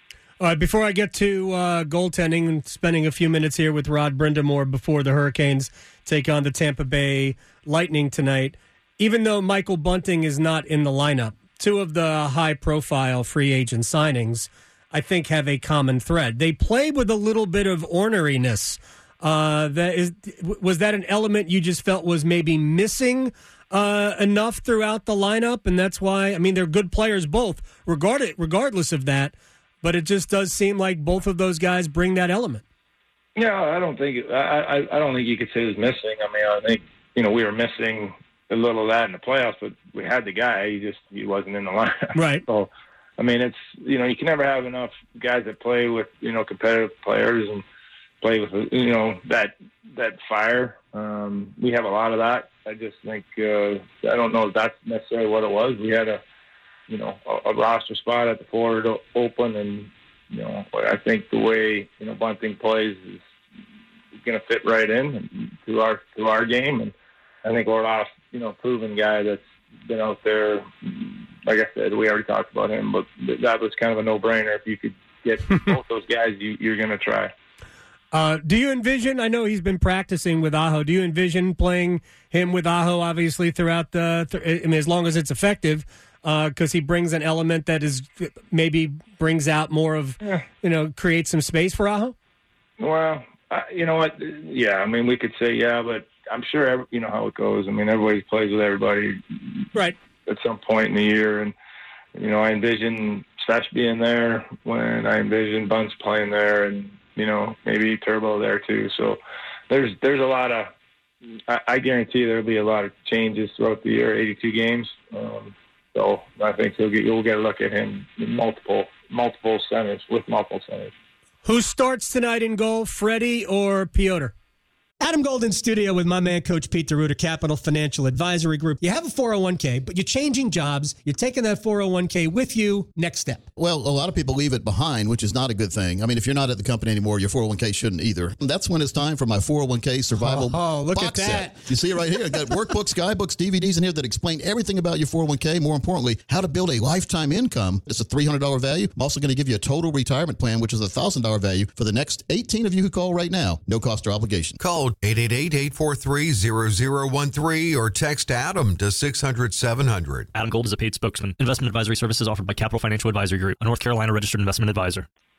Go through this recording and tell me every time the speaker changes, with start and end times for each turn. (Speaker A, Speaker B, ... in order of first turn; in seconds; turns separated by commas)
Speaker A: 0.4-32.6, Speaker B: 33.4-47.6, Speaker A: 42.1-42.4, Speaker B: 48.2-56.2, Speaker B: 56.9-63.2, Speaker B: 64.2-77.3, Speaker A: 78.1-92.1, Speaker B: 92.8-99.7, Speaker B: 100.2-101.5, Speaker B: 102.2-110.7, Speaker B: 111.5-120.9, Speaker A: 121.4-124.3, Speaker A: 125.0-133.5, Speaker C: 133.6-154.6, Speaker A: 140.1-141.7, Speaker D: 154.6-160.3, Speaker E: 160.3-165.0